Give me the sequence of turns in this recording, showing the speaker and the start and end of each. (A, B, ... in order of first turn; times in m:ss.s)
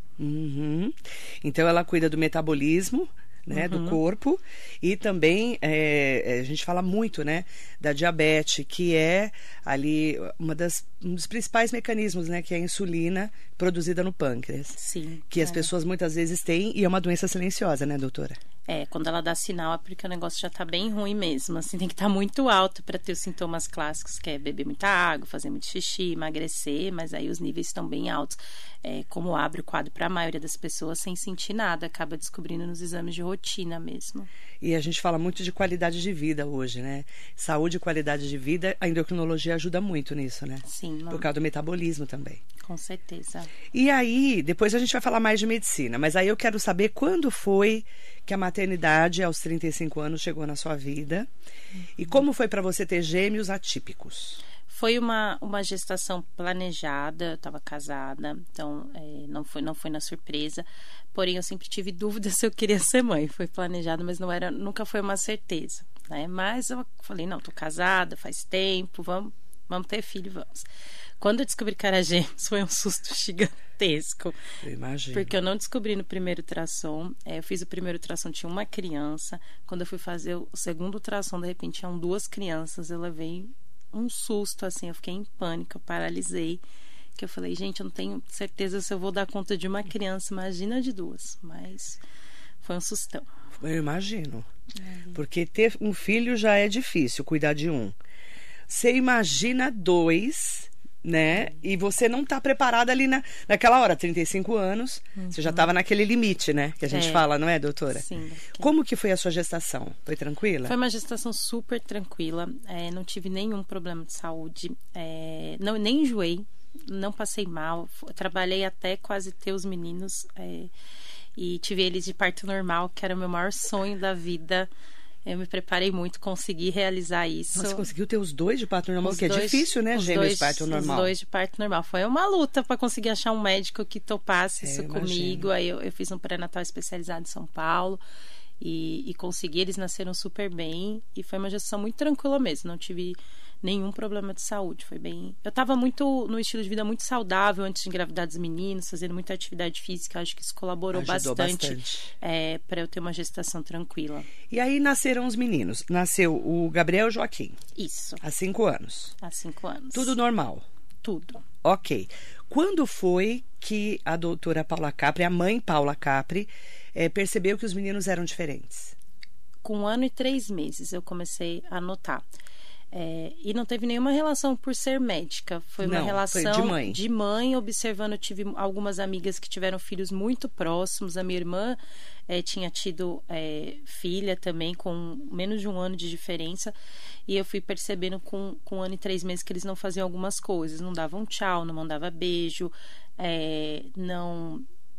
0:00.2-0:14.8 A
0:03.5-0:04.0 B
0:14.7-0:15.7 B
0:15.3-0:18.4 A
0:18.7-0:34.3 B
0:34.6-0:42.4 A
0:40.6-0:41.3 B
0:42.6-0:43.5 B
0:43.7-0:51.3 A
0:52.0-0:54.4 A
0:54.7-1:10.6 B
1:11.2-1:14.4 B
1:14.6-1:15.3 A
1:15.1-1:26.6 B
1:27.2-1:32.0 B
1:32.6-1:33.3 B
1:33.6-1:34.5 A
1:34.8-1:35.2 B
1:35.1-1:37.9 A
1:38.7-1:50.7 A
1:45.2-1:45.7 B
1:46.9-1:47.2 B
1:47.9-1:48.7 B
1:50.6-2:00.7 B
2:01.4-2:04.7 B
2:05.2-2:07.9 B
2:07.5-2:11.1 A
2:09.0-2:18.0 B
2:14.6-2:15.5 A
2:18.6-2:34.3 B
2:30.9-2:32.1 A
2:34.5-2:37.6 A
2:37.8-2:38.2 B
2:38.2-2:39.2 A
2:39.2-2:40.2 B
2:39.9-2:40.6 A
2:41.0-2:41.4 B
2:41.6-2:48.9 A
2:49.6-2:52.2 B
2:52.9-3:01.8 B
2:55.8-2:57.0 A
3:02.3-3:06.7 B
3:07.3-3:14.6 B